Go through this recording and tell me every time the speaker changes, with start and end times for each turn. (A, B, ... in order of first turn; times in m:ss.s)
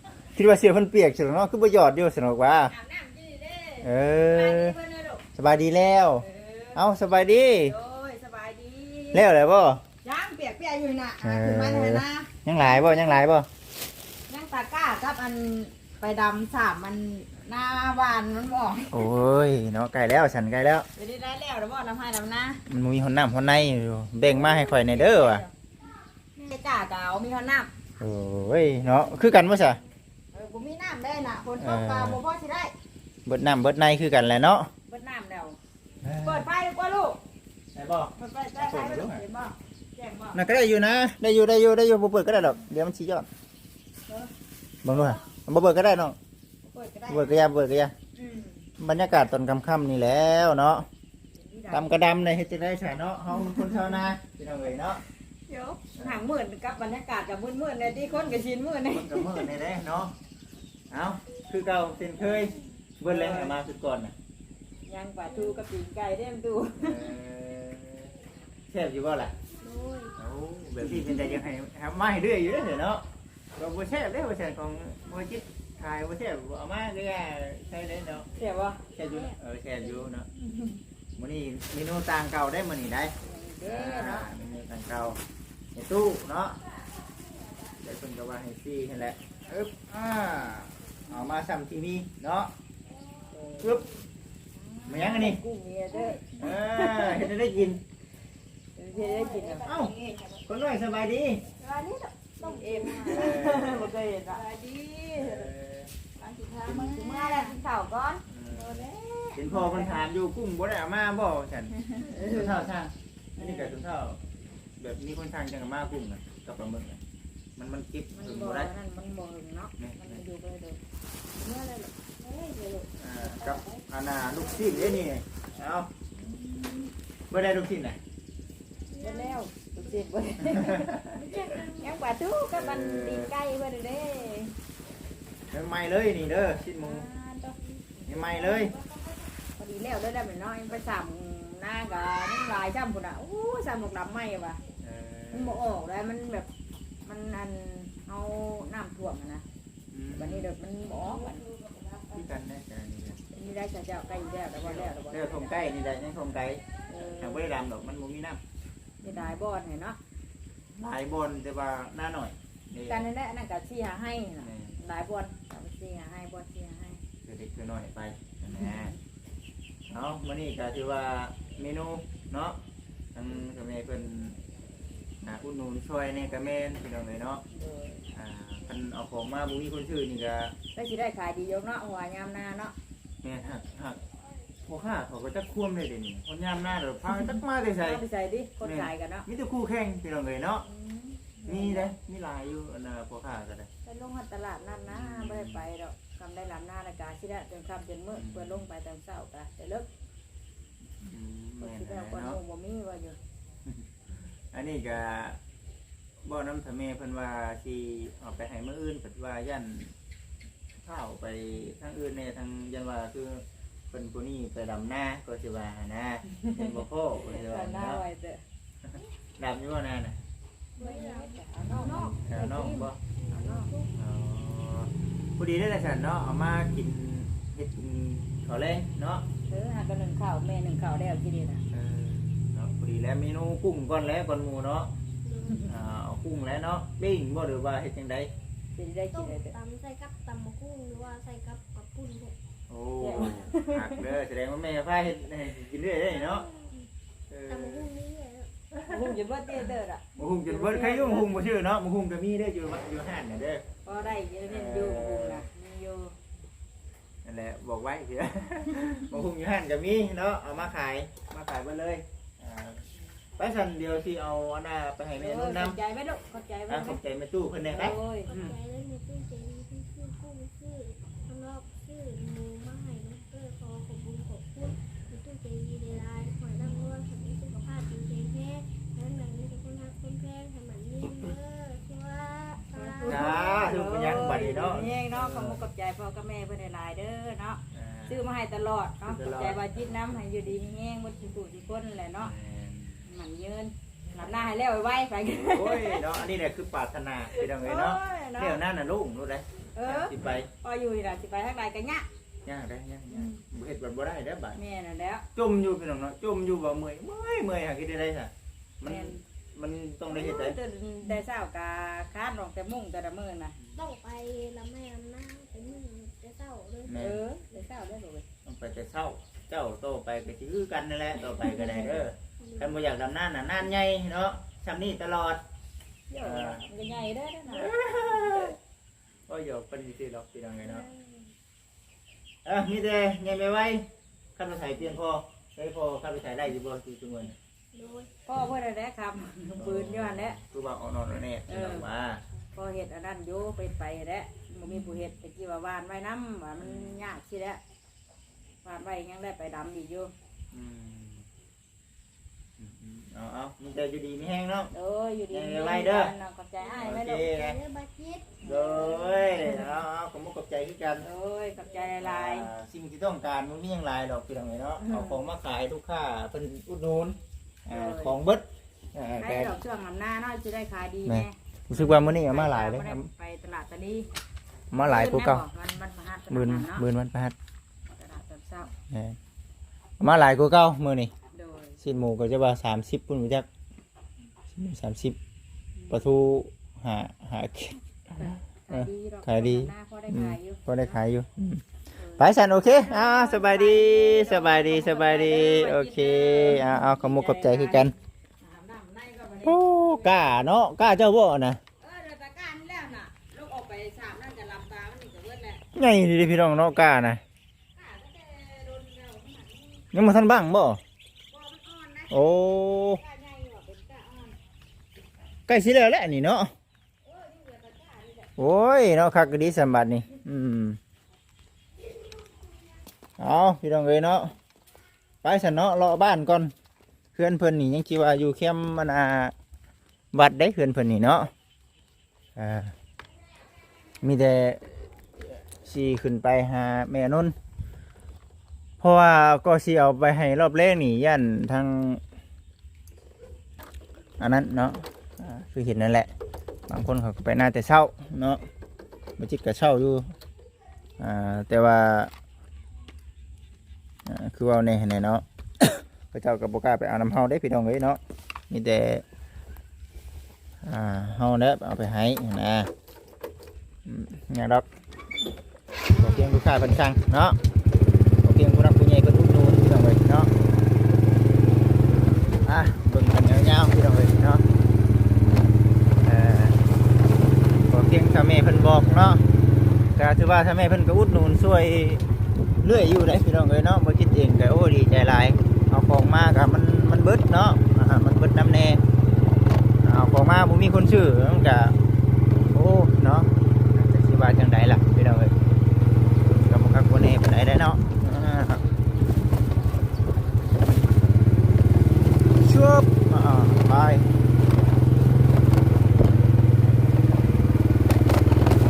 0:00.3-0:02.7 A
0:02.7-0:05.2 B
0:03.8-0:04.8 A
0:05.3-0:07.8 A
0:06.2-0:06.8 B
0:07.6-0:09.3 B
0:09.1-0:09.8 A
0:10.0-0:13.1 B
0:11.2-0:13.5 A
0:14.3-0:19.1 B
0:18.9-0:20.9 A
0:21.0-0:22.6 B
0:22.7-0:25.4 A
0:24.2-0:25.5 B
0:26.4-0:27.7 B
0:28.0-0:29.8 A
0:30.3-0:32.8 B
0:31.6-0:32.2 A
0:33.2-0:34.7 A
0:34.9-0:35.6 B
0:36.0-0:36.5 A
0:36.2-0:37.2 B
0:37.8-0:39.2 A
0:38.2-0:40.4 B
0:40.3-0:43.3 A
0:44.8-0:46.2 A
0:46.6-0:47.4 B
0:47.1-0:47.9 A
0:48.1-0:48.7 B
0:48.8-0:50.9 A
0:51.4-0:52.0 B
0:51.7-0:55.0 A
0:55.5-0:59.5 B
0:55.9-0:56.2 A
0:58.9-1:00.1 A
1:00.9-1:04.1 A
1:03.0-1:03.6 B
1:04.9-1:07.1 B
1:05.3-1:05.6 C
1:06.8-1:08.1 A
1:08.7-1:09.3 A
1:09.6-1:10.2 C
1:10.2-1:13.0 A
1:13.6-1:18.3 A
1:18.4-1:18.8 B
1:18.9-1:20.3 A
1:19.1-1:19.4 C
1:20.4-1:20.8 B
1:21.2-1:23.1 A
1:23.2-1:24.3 B
1:23.6-1:25.2 A
1:25.7-1:26.6 A
1:27.8-1:32.5 A
1:33.2-1:33.8 B
1:34.5-1:37.3 B
1:34.9-1:35.4 A
1:35.9-1:36.4 C
1:36.4-1:37.8 A
1:38.8-1:40.2 B
1:38.9-1:40.1 C
1:39.6-1:39.9 A
1:40.4-1:41.4 A
1:41.6-1:43.6 C
1:42.4-1:45.5 B
1:43.1-1:43.9 A
1:45.2-1:45.9 A
1:46.2-1:50.0 B
1:46.6-1:47.0 A
1:47.0-1:47.5 C
1:48.3-1:48.8 A
1:49.4-1:54.2 A
1:51.8-1:52.6 B
1:53.4-1:53.8 B
1:54.8-1:57.0 A
1:57.6-1:58.7 A
1:58.1-2:00.8 B
1:59.8-2:00.2 A
2:01.4-2:03.8 B
2:03.0-2:05.9 A
2:04.5-2:04.9 B
2:06.1-2:06.9 B
2:07.3-2:08.0 A
2:08.9-2:10.0 C
2:09.0-2:10.9 B
2:10.4-2:11.2 A
2:11.1-2:11.9 C
2:11.8-2:14.5 B
2:12.5-2:13.3 A
2:15.5-2:17.0 A
2:16.6-2:24.6 B
2:18.0-2:18.7 A
2:24.8-2:25.6 A
2:25.3-2:26.5 B
2:27.0-2:29.4 B
2:29.9-2:30.5 A
2:30.2-2:32.2 B
2:32.1-2:33.2 A
2:33.3-2:35.6 B
2:34.6-2:36.6 A
2:36.9-2:37.5 B
2:37.2-2:38.4 A
2:39.0-2:40.0 B
2:39.0-2:39.3 A
2:40.8-2:43.1 A
2:42.8-2:47.0 B
2:44.4-2:44.7 A
2:47.2-2:48.9 A
2:48.5-2:49.0 B
2:49.9-2:52.6 A
2:53.1-2:54.4 A
2:55.2-2:57.4 A
2:57.5-2:58.0 B
2:58.1-3:00.5 A
3:00.7-3:02.8 B
3:03.2-3:04.0 A
3:04.6-3:08.0 A
3:07.8-3:09.3 B
3:08.6-3:10.6 A
3:10.6-3:11.9 B
3:11.4-3:13.7 A
3:13.8-3:19.9 B
3:14.9-3:15.7 A
3:18.1-3:18.6 A
3:21.0-3:22.4 A
3:21.6-3:23.2 B
3:24.5-3:25.4 A
3:26.2-3:29.9 A
3:30.8-3:38.0 A
3:36.4-3:38.4 B
3:38.9-3:40.2 A
3:40.8-3:42.2 C
3:40.8-3:43.7 B
3:42.2-3:43.0 A
3:43.2-3:43.9 C
3:43.9-3:49.2 A
3:49.5-3:51.6 B
3:51.7-3:54.9 A
3:55.2-3:55.8 C
3:55.4-3:55.7 B
3:55.7-3:58.3 A
3:58.8-3:59.5 B
3:59.1-4:02.4 C
4:02.7-4:06.4 A
4:03.0-4:04.0 B
4:06.1-4:06.9 C
4:07.3-4:07.9 A
4:07.5-4:08.5 C
4:08.9-4:11.3 B
4:10.2-4:13.6 A
4:13.8-4:16.1 B
4:14.5-4:15.4 A
4:17.2-4:22.8 A
4:23.4-4:25.8 A
4:25.1-4:27.0 B
4:26.7-4:28.5 A
4:27.7-4:28.5 B
4:28.2-4:43.5 C
4:42.7-4:52.3 B
4:43.0-4:45.6 A
4:47.7-4:48.2 A
4:49.0-4:50.0 A
4:52.2-4:53.0 A
4:53.0-4:56.0 B
4:55.4-5:00.5 A
4:57.3-4:58.6 B
4:59.8-5:02.1 B
5:02.4-5:04.6 A
5:03.1-5:03.4 B
5:04.5-5:05.2 B
5:05.4-5:10.6 A
5:08.8-5:09.2 B
5:10.1-5:13.6 B
5:13.8-5:17.5 C
5:16.9-5:17.2 A
5:17.0-5:18.2 B
5:18.4-5:25.4 A
5:21.5-5:22.8 C
5:26.1-5:28.6 B
5:26.2-5:26.7 A
5:27.5-5:28.6 A
5:29.3-5:30.9 A
5:30.6-5:31.2 C
5:32.4-5:37.4 A
5:37.7-5:38.1 C
5:38.2-5:40.4 B
5:39.6-5:42.2 A
5:41.5-5:41.9 B
5:42.5-5:47.6 B
5:46.6-5:47.1 A
5:48.6-5:50.1 B
5:50.5-5:51.2 A
5:52.6-5:54.7 A
5:54.7-5:57.3 B
5:55.3-5:56.1 A
5:56.6-5:59.6 C
5:56.7-5:57.6 A
5:58.4-5:59.7 B
5:58.4-6:01.1 A
6:01.0-6:02.5 B
6:01.6-6:01.9 C
6:02.0-6:09.5 A
6:04.8-6:05.2 B
6:07.7-6:08.1 B
6:09.2-6:14.1 B
6:11.0-6:13.1 A
6:14.7-6:15.4 A
6:14.8-6:16.9 B
6:16.3-6:17.3 A
6:17.9-6:18.7 B
6:18.9-6:19.2 A
6:20.0-6:21.1 A
6:21.3-6:21.8 B
6:21.8-6:23.5 A
6:24.5-6:25.2 A
6:25.8-6:26.2 B
6:25.9-6:31.6 A
6:28.2-6:31.0 B
6:32.0-6:40.4 B
6:32.2-6:37.9 A
6:39.4-6:41.6 A
6:41.8-6:45.6 B
6:45.7-6:47.2 A
6:47.8-6:49.8 B
6:49.9-6:50.8 A
6:51.3-6:54.4 B
6:52.1-6:53.0 A
6:55.5-6:56.5 A
6:57.0-6:58.3 B
6:58.4-7:00.8 A
7:03.2-7:04.3 A
7:05.2-7:06.5 A
7:07.1-7:09.3 A
7:10.1-7:11.3 A
7:12.4-7:12.7 A
7:14.0-7:14.7 A
7:15.6-7:17.4 A
7:18.8-7:22.0 A
7:24.2-7:26.1 A
7:26.7-7:28.4 A
7:29.2-7:30.1 A
7:31.0-7:32.1 A
7:34.1-7:39.0 A
7:40.6-7:42.7 A
7:43.9-7:44.6 A
7:45.9-7:47.4 A
7:48.2-7:50.3 A
7:52.4-7:54.4 A
7:56.0-7:56.6 A
7:57.7-7:59.2 A
8:00.0-8:02.0 A
8:02.6-8:08.8 A
8:09.8-8:11.8 A
8:12.5-8:15.3 A
8:16.4-8:18.6 A
8:22.4-8:24.1 A